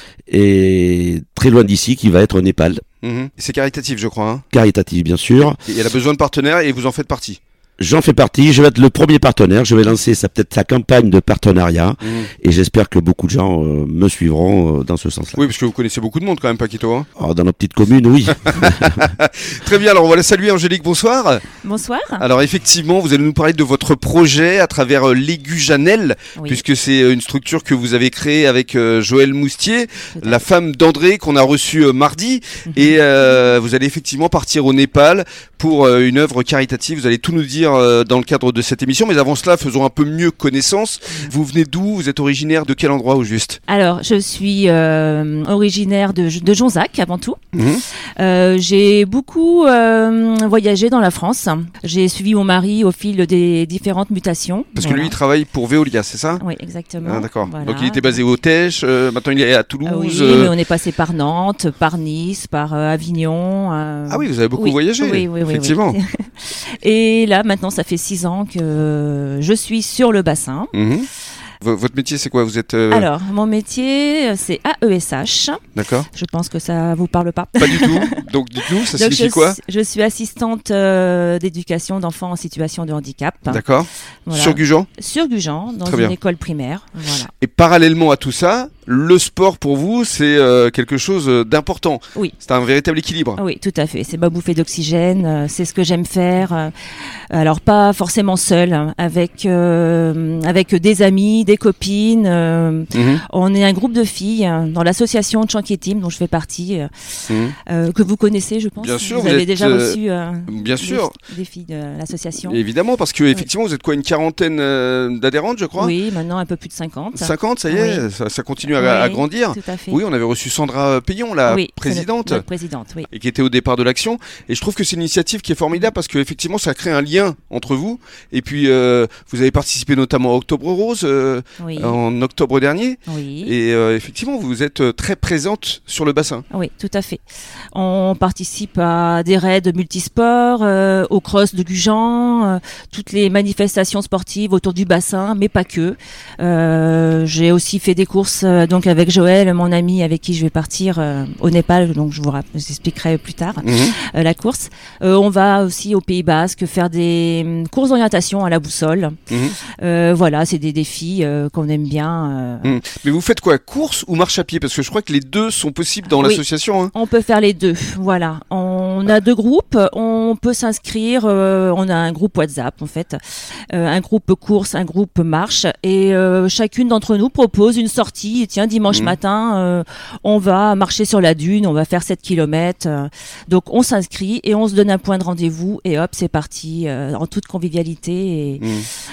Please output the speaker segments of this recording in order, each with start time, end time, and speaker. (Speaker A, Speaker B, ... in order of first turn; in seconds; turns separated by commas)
Speaker A: 0.3-2.8, Speaker B: 3.0-4.4, Speaker A: 4.5-5.6, Speaker B: 5.6-7.4, Speaker A: 7.8-15.4, Speaker B: 12.0-12.3, Speaker B: 15.3-17.1, Speaker A: 17.2-19.1, Speaker B: 18.4-21.4, Speaker C: 21.6-22.2, Speaker B: 22.2-43.6, Speaker C: 26.4-26.6, Speaker C: 30.1-30.4, Speaker C: 32.7-33.0, Speaker C: 43.7-47.4, Speaker B: 47.5-47.8, Speaker C: 48.2-55.1, Speaker B: 54.8-56.4, Speaker C: 56.4-58.2, Speaker B: 57.0-60.5, Speaker C: 59.8-70.7, Speaker B: 64.1-66.0, Speaker B: 70.7-71.1, Speaker B: 71.6-73.1, Speaker C: 72.9-75.6, Speaker B: 75.8-76.1, Speaker C: 76.1-78.2, Speaker B: 77.6-79.6, Speaker C: 78.9-83.6, Speaker B: 83.5-84.9, Speaker C: 84.3-87.3, Speaker B: 85.8-86.1, Speaker B: 87.4-93.4, Speaker C: 93.4-96.7, Speaker C: 97.3-106.9, Speaker B: 102.9-103.2, Speaker B: 107.3-107.5, Speaker C: 107.7-112.6, Speaker B: 108.8-111.1, Speaker B: 112.4-115.9, Speaker C: 115.8-118.0, Speaker B: 117.1-122.4, Speaker C: 118.7-120.0, Speaker C: 121.5-123.1, Speaker B: 123.1-136.4, Speaker C: 131.6-131.9, Speaker C: 133.1-133.5, Speaker C: 136.5-137.2, Speaker C: 137.7-159.2, Speaker B: 153.6-153.9, Speaker B: 159.3-159.5, Speaker C: 159.8-162.8, Speaker B: 162.6-166.9, Speaker C: 166.1-173.2, Speaker C: 173.7-188.6, Speaker B: 178.9-179.2, Speaker B: 188.6-188.9